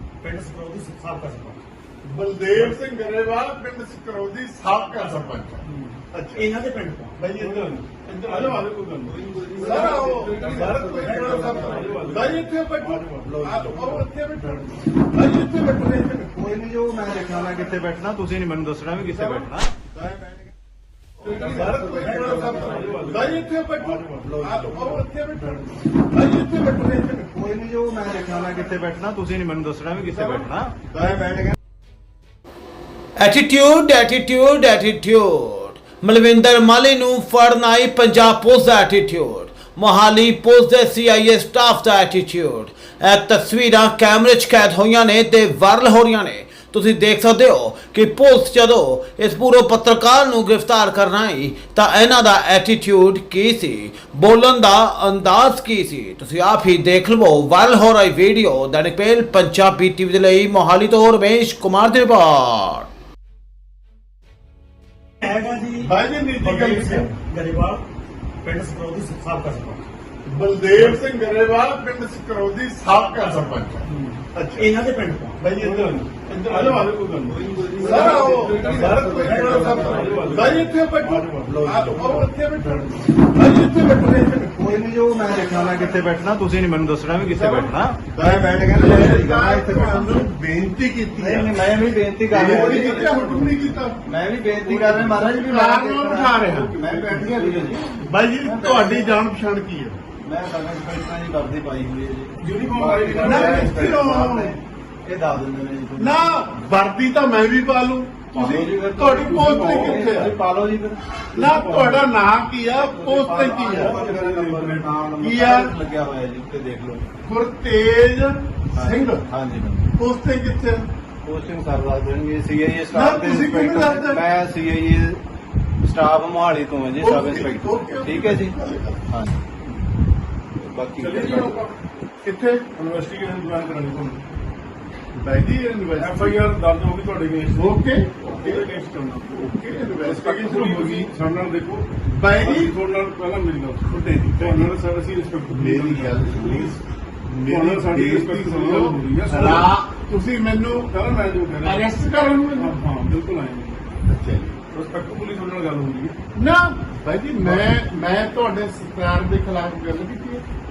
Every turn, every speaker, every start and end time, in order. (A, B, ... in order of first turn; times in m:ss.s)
0:00.2-0:01.6 A
0:02.0-0:06.4 B
0:04.6-0:05.4 A
0:05.6-0:06.0 C
0:06.4-0:07.8 A
0:07.4-0:14.6 C
0:08.0-0:08.5 B
0:09.1-0:12.0 A
0:09.3-0:09.7 D
0:09.6-0:15.8 B
0:10.4-0:12.1 D
0:13.2-0:13.9 D
0:15.9-0:20.3 D
0:18.9-0:19.5 C
0:21.2-0:25.6 B
0:21.2-0:25.7 C
0:21.8-0:23.0 D
0:22.2-0:23.0 A
0:24.0-0:25.0 D
0:26.2-0:27.0 C
0:26.3-0:31.5 D
0:30.0-0:30.5 C
0:33.2-1:02.9 E
1:05.2-1:07.8 A
1:05.8-1:07.1 B
1:08.4-1:09.8 A
1:10.2-1:14.7 B
1:10.7-1:11.0 C
1:12.8-1:13.6 A
1:13.9-1:14.2 C
1:14.6-1:15.5 A
1:15.4-1:16.8 B
1:15.6-1:21.7 C
1:17.3-1:20.1 A
1:17.6-1:20.3 D
1:17.8-1:24.6 B
1:21.4-1:22.2 D
1:22.6-1:22.9 C
1:24.8-1:30.1 D
1:27.2-1:31.7 B
1:31.3-1:33.0 D
1:32.3-1:34.0 B
1:32.3-1:33.6 C
1:34.1-1:37.8 D
1:34.6-1:35.2 C
1:35.0-1:40.0 B
1:40.3-1:46.2 D
1:42.4-1:44.2 C
1:43.1-1:44.6 B
1:45.9-1:50.4 B
1:48.4-1:50.1 C
1:48.6-1:51.0 D
1:51.3-1:54.0 B
1:51.3-1:52.1 C
1:52.8-1:57.0 D
1:53.6-1:55.0 C
1:55.2-1:55.7 B
1:57.2-1:59.3 B
1:58.8-1:59.8 D
1:59.9-2:00.8 B
2:01.2-2:05.2 D
2:02.9-2:04.3 B
2:05.8-2:08.6 D
2:06.9-2:09.1 B
2:10.6-2:11.6 D
2:11.0-2:11.7 C
2:12.2-2:12.6 B
2:12.8-2:14.2 C
2:15.1-2:16.4 B
2:16.0-2:19.5 C
2:17.6-2:18.7 B
2:19.3-2:21.1 B
2:20.0-2:26.8 C
2:22.1-2:22.7 B
2:23.9-2:24.7 B
2:25.5-2:30.9 B
2:27.5-2:29.7 C
2:30.9-2:31.8 C
2:31.6-2:32.8 B
2:32.6-2:33.8 C
2:34.1-2:34.6 B
2:34.7-2:36.1 C
2:36.3-2:40.4 B
2:37.4-2:37.7 C